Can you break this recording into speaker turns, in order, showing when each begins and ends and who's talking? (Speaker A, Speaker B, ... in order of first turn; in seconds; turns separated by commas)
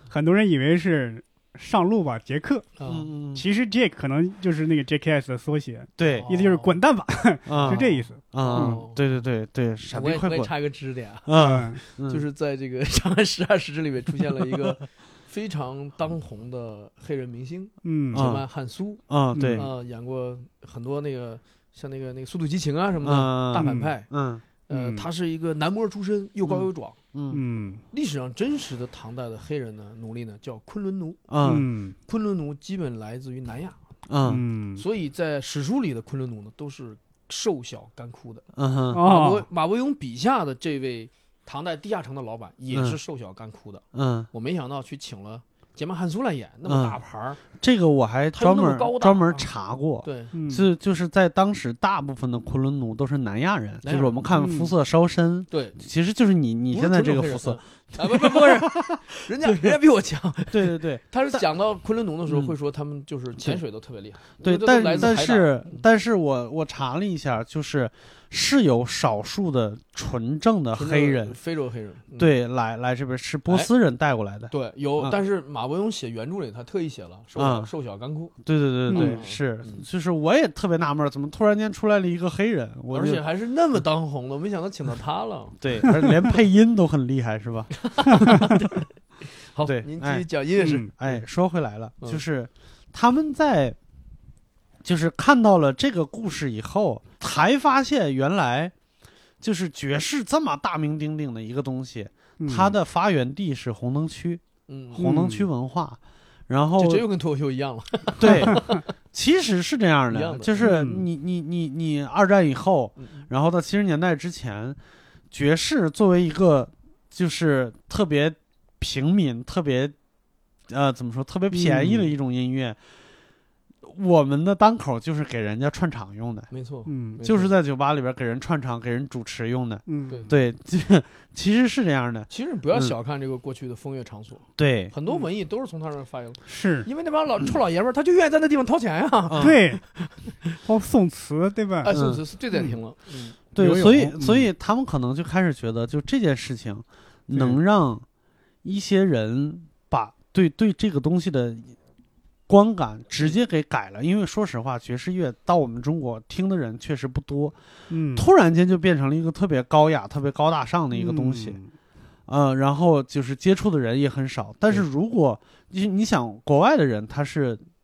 Speaker A: 0.1-2.8, Speaker B: 2.8-3.1, Speaker C: 2.9-3.4, Speaker A: 3.3-8.8, Speaker C: 6.0-6.3, Speaker B: 6.1-6.8, Speaker C: 7.5-10.5, Speaker B: 7.5-9.0, Speaker B: 9.9-19.0, Speaker C: 11.2-12.2, Speaker A: 11.3-11.8, Speaker A: 17.8-18.2, Speaker C: 18.1-18.4, Speaker C: 19.1-19.7, Speaker A: 19.3-19.7, Speaker B: 19.5-24.1, Speaker C: 23.0-24.4, Speaker A: 23.6-23.9, Speaker B: 24.7-27.0, Speaker A: 24.7-25.1, Speaker C: 27.1-27.4, Speaker A: 27.3-27.8, Speaker B: 27.9-31.2, Speaker C: 31.3-31.7, Speaker A: 31.4-31.9, Speaker B: 32.0-33.8, Speaker C: 34.1-34.4, Speaker A: 34.2-34.8, Speaker B: 34.8-38.4, Speaker C: 38.5-39.0, Speaker A: 38.9-39.5, Speaker B: 39.0-47.4, Speaker C: 42.7-43.0, Speaker C: 43.9-44.3, Speaker C: 46.6-47.0, Speaker C: 47.5-59.7, Speaker B: 48.3-49.5, Speaker B: 50.0-50.3, Speaker A: 50.3-50.7, Speaker B: 53.8-54.2, Speaker A: 54.3-54.7, Speaker B: 55.5-55.8, Speaker B: 56.7-65.8, Speaker C: 60.5-61.4, Speaker C: 64.4-71.3, Speaker B: 70.7-72.3, Speaker C: 72.2-75.1, Speaker B: 74.5-78.3, Speaker C: 77.4-77.7, Speaker C: 78.4-83.2, Speaker B: 78.9-79.8, Speaker A: 78.9-79.2, Speaker B: 82.9-85.6, Speaker C: 85.6-88.4, Speaker B: 87.8-91.2, Speaker C: 89.6-93.8, Speaker A: 90.6-90.9, Speaker C: 94.8-98.7, Speaker C: 99.4-107.0, Speaker A: 102.4-102.7, Speaker B: 104.7-105.2, Speaker A: 105.0-105.5, Speaker B: 106.8-108.8, Speaker C: 108.2-114.8, Speaker B: 110.1-110.7, Speaker A: 110.6-111.0, Speaker B: 113.0-113.2, Speaker C: 115.3-119.9, Speaker C: 120.7-122.8, Speaker A: 121.5-122.1, Speaker C: 123.8-126.5, Speaker B: 126.5-127.5, Speaker A: 126.9-127.2, Speaker C: 127.2-132.9, Speaker A: 129.9-130.3, Speaker B: 130.1-130.3, Speaker B: 132.3-140.5, Speaker C: 134.6-134.9, Speaker A: 136.5-136.9, Speaker C: 139.3-139.6, Speaker A: 139.4-139.8, Speaker A: 140.6-141.9, Speaker B: 141.8-143.4, Speaker C: 141.9-142.2, Speaker C: 143.5-148.0, Speaker A: 143.6-144.5, Speaker A: 147.3-147.6, Speaker C: 148.6-151.8, Speaker C: 152.5-157.6, Speaker A: 157.9-158.3, Speaker C: 158.1-161.6, Speaker A: 160.9-161.7, Speaker C: 162.3-167.6